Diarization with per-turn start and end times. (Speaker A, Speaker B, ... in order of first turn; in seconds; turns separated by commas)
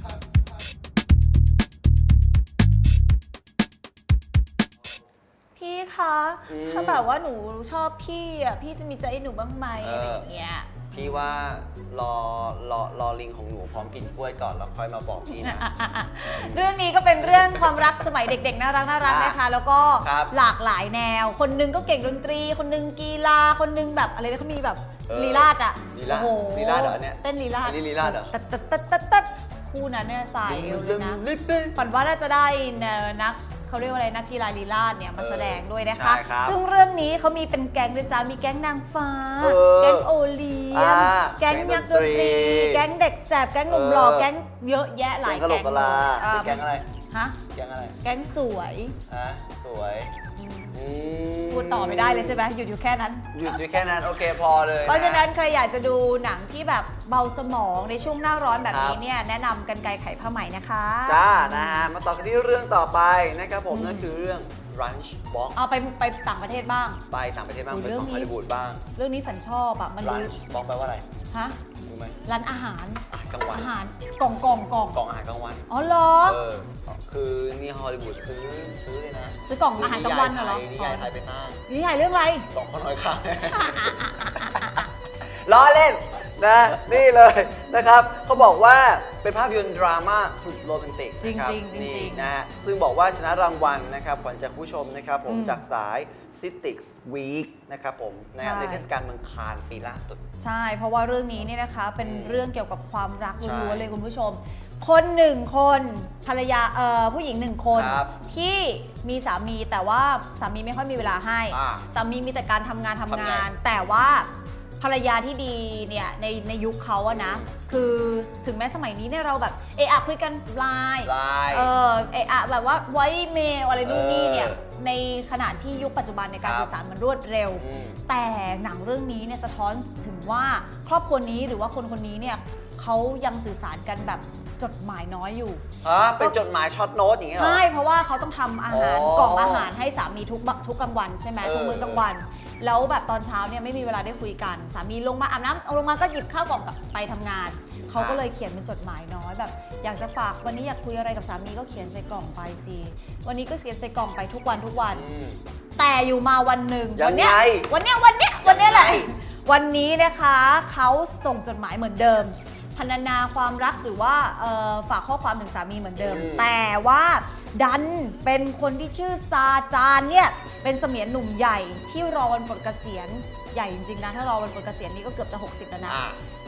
Speaker A: 5.6-11.3, Speaker B: 6.5-7.0, Speaker B: 9.8-10.3, Speaker B: 10.9-15.7, Speaker A: 15.3-31.2, Speaker B: 16.4-16.7, Speaker B: 17.2-18.0, Speaker B: 19.0-19.4, Speaker B: 20.0-20.3, Speaker B: 25.1-28.3, Speaker B: 30.5-31.7, Speaker A: 31.8-47.4, Speaker B: 35.2-36.6, Speaker B: 39.4-40.1, Speaker B: 40.7-42.8, Speaker B: 43.7-44.3, Speaker B: 45.3-46.9, Speaker B: 47.5-48.0, Speaker A: 48.0-49.0, Speaker B: 49.1-50.1, Speaker A: 50.4-50.8, Speaker B: 50.7-52.4, Speaker A: 51.5-53.8, Speaker B: 53.4-55.3, Speaker A: 54.9-61.9, Speaker B: 58.7-59.0, Speaker B: 61.1-65.6, Speaker A: 63.7-64.1, Speaker A: 65.5-67.0, Speaker B: 67.1-68.8, Speaker A: 67.7-68.3, Speaker A: 69.0-70.3, Speaker B: 70.0-71.0, Speaker A: 71.3-71.6, Speaker B: 71.8-72.2, Speaker A: 72.3-75.0, Speaker B: 73.1-73.7, Speaker B: 74.9-75.7, Speaker A: 75.7-76.4, Speaker B: 76.2-81.7, Speaker A: 79.5-81.1, Speaker A: 81.7-82.5, Speaker B: 82.5-84.7, Speaker A: 83.8-84.3, Speaker B: 85.2-100.2, Speaker A: 91.2-92.3, Speaker A: 95.3-95.6, Speaker A: 98.4-98.9, Speaker A: 100.4-135.6, Speaker B: 102.0-102.4, Speaker B: 103.4-103.9, Speaker B: 107.7-108.1, Speaker B: 111.5-111.8, Speaker B: 113.1-113.5, Speaker B: 117.1-117.6, Speaker B: 121.0-121.7, Speaker B: 123.8-124.6, Speaker B: 126.4-126.7, Speaker B: 127.5-128.0, Speaker B: 135.8-137.6, Speaker A: 137.4-155.0, Speaker B: 138.7-139.7, Speaker B: 141.4-142.0, Speaker B: 147.9-148.2, Speaker B: 154.9-155.4, Speaker A: 155.8-176.0, Speaker B: 157.0-157.7, Speaker B: 158.4-159.1, Speaker B: 166.0-166.5, Speaker B: 175.9-176.2